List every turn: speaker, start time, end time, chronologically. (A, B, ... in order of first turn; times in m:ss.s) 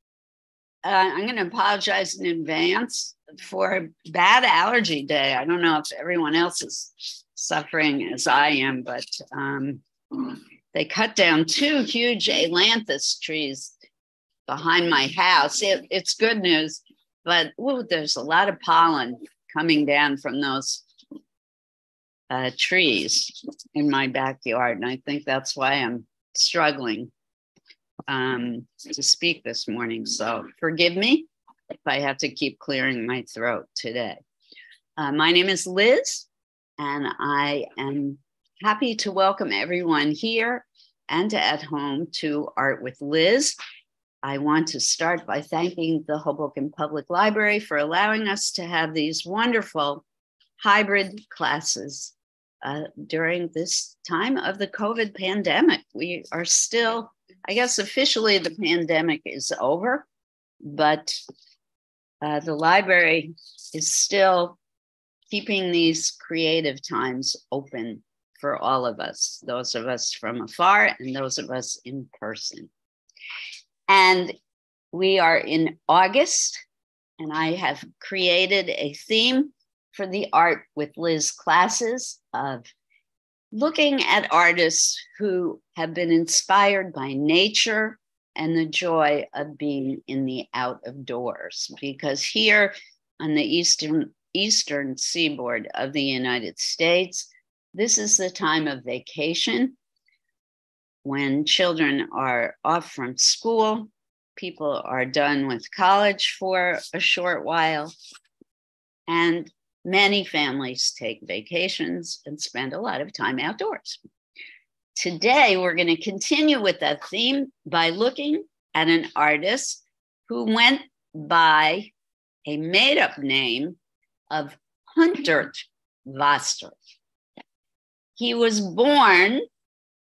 0:00.8-0:13.7 A
0:14.5-0:20.8 A
0:22.3-0:27.1 A
0:28.1-0:34.2 A
0:35.0-0:36.3 A
0:36.8-0:43.6 A
0:44.2-0:50.0 A
0:50.6-1:00.0 A
1:00.6-1:01.2 A
1:02.2-1:04.6 A
1:05.3-1:12.7 A
1:13.9-1:14.4 A
1:14.9-1:16.6 A
1:17.2-1:22.7 A
1:23.5-1:39.8 A
1:41.0-1:47.9 A
1:49.1-1:54.0 A
1:55.0-2:01.9 A
2:02.5-2:03.8 A
2:04.3-2:06.7 A
2:08.2-2:09.4 A